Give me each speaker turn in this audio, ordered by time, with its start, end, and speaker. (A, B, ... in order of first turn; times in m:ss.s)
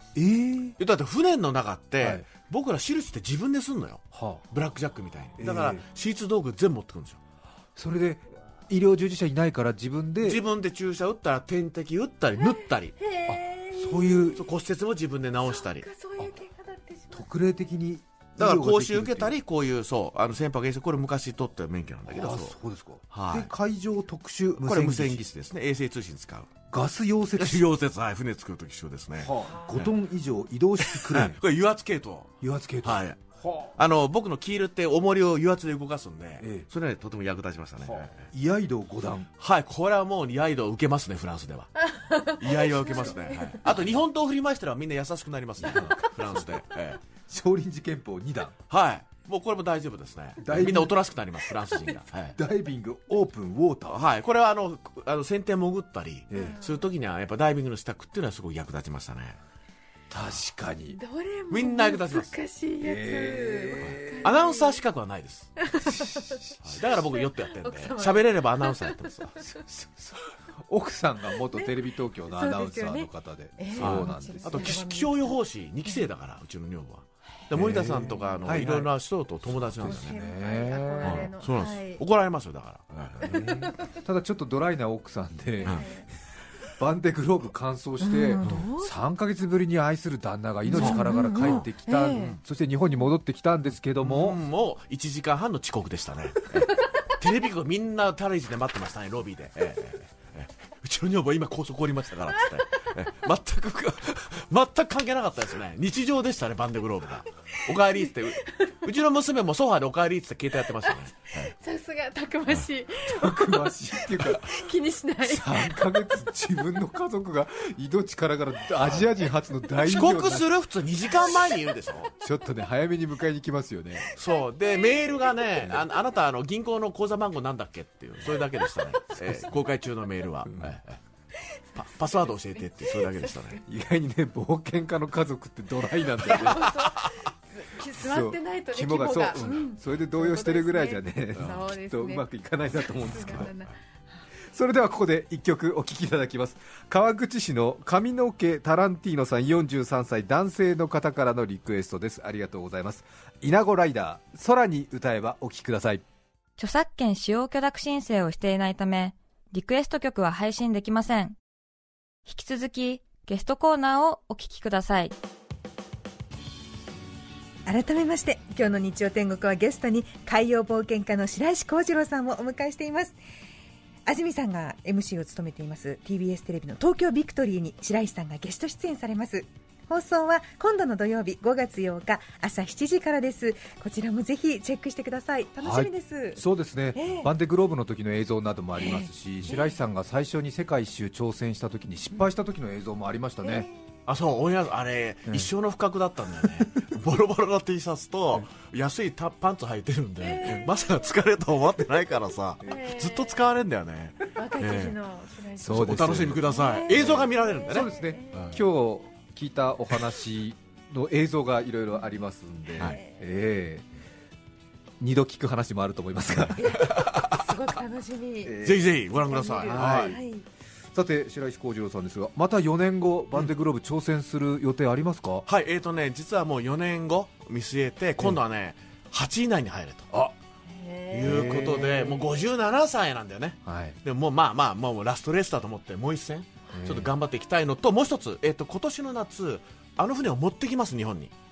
0:00.1-0:00.8 A
0:00.8-0:07.2 B
0:04.1-0:04.4 A
0:05.4-0:05.8 A
0:07.8-0:10.4 A
0:10.2-0:13.0 B
0:13.0-0:14.4 C
0:13.3-0:14.4 A
0:14.4-0:15.9 B
0:15.4-0:17.3 C
0:17.1-0:19.4 A
0:18.4-0:22.6 B
0:22.1-0:25.3 A
0:23.1-0:23.5 B
0:24.6-0:26.5 B
0:26.7-0:27.7 A
0:27.4-0:29.9 B
0:29.2-0:31.4 A
0:30.8-0:33.2 B
0:32.4-0:33.7 A
0:33.7-0:38.3 B
0:36.4-0:36.7 A
0:37.8-0:39.3 A
0:39.4-0:41.7 B
0:41.9-0:43.7 C
0:42.2-0:47.0 B
0:45.7-0:46.4 A
0:47.3-0:48.5 A
0:48.7-0:52.4 B
0:50.4-0:51.0 A
0:52.3-0:54.0 A
0:53.9-0:59.4 B
0:56.3-0:56.6 A
0:56.3-0:56.8 C
1:00.1-1:01.0 A
1:00.9-1:04.8 C
1:01.5-1:02.3 B
1:02.8-1:04.3 A
1:03.8-1:05.5 B
1:05.6-1:09.5 C
1:06.0-1:06.3 A
1:06.6-1:09.5 B
1:09.7-1:14.8 A
1:11.5-1:16.0 C
1:13.8-1:20.2 B
1:17.5-1:18.9 A
1:18.0-1:18.3 C
1:19.8-1:21.3 A
1:19.8-1:22.0 C
1:21.0-1:23.7 B
1:23.2-1:23.7 C
1:23.2-1:25.9 A
1:25.6-1:26.1 C
1:26.8-1:34.4 A
1:28.0-1:29.0 C
1:28.4-1:28.7 B
1:30.7-1:32.4 C
1:30.7-1:32.4 B
1:34.0-1:51.5 B
1:48.5-1:48.8 C
1:51.4-1:56.3 C
1:53.0-1:54.6 A
1:55.2-2:00.5 A
1:58.8-1:59.1 B
1:59.8-2:02.1 B
2:02.2-2:04.1 A
2:04.1-2:11.0 B
2:04.2-2:05.6 C
2:09.2-2:09.4 A
2:11.7-2:13.6 B
2:12.8-2:13.3 C
2:13.7-2:17.0 A
2:16.2-2:22.3 C
2:16.3-2:16.9 B
2:18.0-2:23.5 A
2:19.3-2:19.6 B
2:21.4-2:21.6 B
2:22.8-2:23.7 C
2:23.2-2:23.6 B
2:24.5-2:36.0 A
2:36.6-2:41.4 D
2:42.2-2:45.1 D
2:47.6-2:53.2 E
2:54.0-3:06.4 E
3:05.6-3:13.7 A
3:07.0-3:07.3 E
3:08.8-3:09.8 C
3:14.1-3:25.0 B
3:16.5-3:16.9 A
3:20.2-3:20.8 C
3:22.6-3:23.4 C
3:24.3-3:28.6 C
3:25.6-3:33.9 A
3:25.7-3:28.6 B
3:32.8-3:33.1 C
3:35.0-3:37.0 A
3:36.6-3:38.6 C
3:36.9-3:37.4 B
3:38.4-3:38.9 A
3:38.6-3:40.2 B
3:39.2-3:40.4 C
3:39.6-3:40.2 A
3:40.9-3:45.4 A
3:45.4-3:50.1 B
3:50.7-3:52.2 C
3:51.1-4:01.3 B
3:51.2-3:52.0 A
3:53.6-3:54.0 A
3:56.7-3:57.1 A